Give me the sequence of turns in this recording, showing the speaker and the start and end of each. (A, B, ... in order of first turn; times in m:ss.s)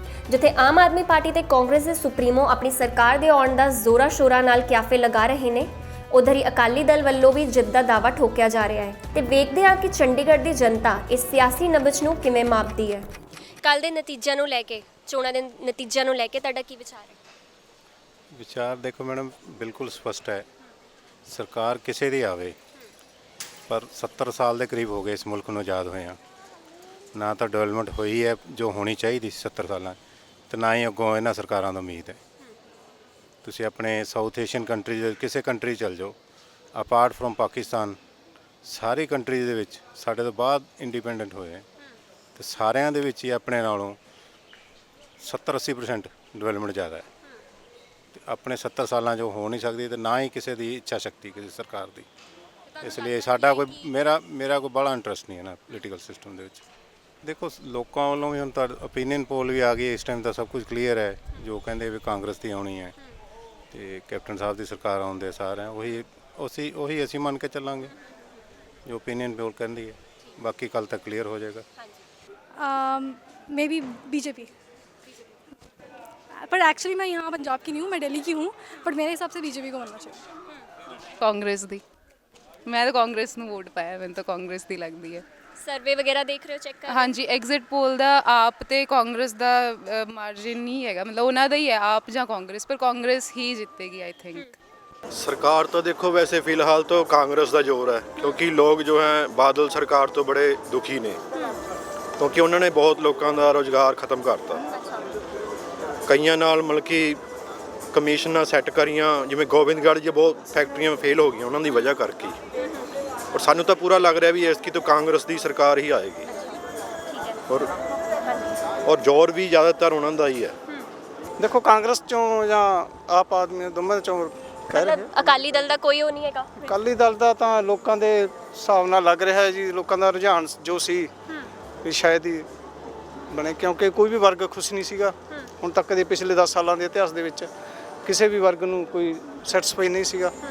0:00.3-0:13.1 A
0:13.6-0:17.2 A
0:18.3-0:20.4 B
0:21.2-0:22.6 B
0:23.7-0:26.2 B
0:27.1-0:30.0 B
0:30.5-0:32.2 B
0:33.4-0:36.1 B
0:36.7-0:38.0 B
0:38.6-0:41.6 B
0:42.4-0:44.0 B
0:45.2-0:47.1 B
0:48.1-0:52.0 B
0:52.8-0:53.7 A
0:52.8-0:56.6 B
0:57.2-1:03.0 B
1:03.7-1:07.9 B
1:08.8-1:11.6 B
1:12.6-1:14.5 C
1:16.3-1:20.2 C
1:21.2-1:21.8 D
1:22.6-1:25.2 D
1:25.6-1:27.1 A
1:26.9-1:34.4 D
1:35.1-1:41.2 E
1:42.2-1:44.6 E
1:46.1-1:47.2 E
1:47.9-1:52.4 E
1:53.3-1:56.2 E
1:56.3-1:57.4 A
1:58.8-2:00.5 E
2:01.4-2:05.1 F
2:04.7-2:06.7 A
2:06.6-2:11.1 F
2:11.8-2:12.5 F
2:13.3-2:17.5 F
2:18.0-2:20.3 F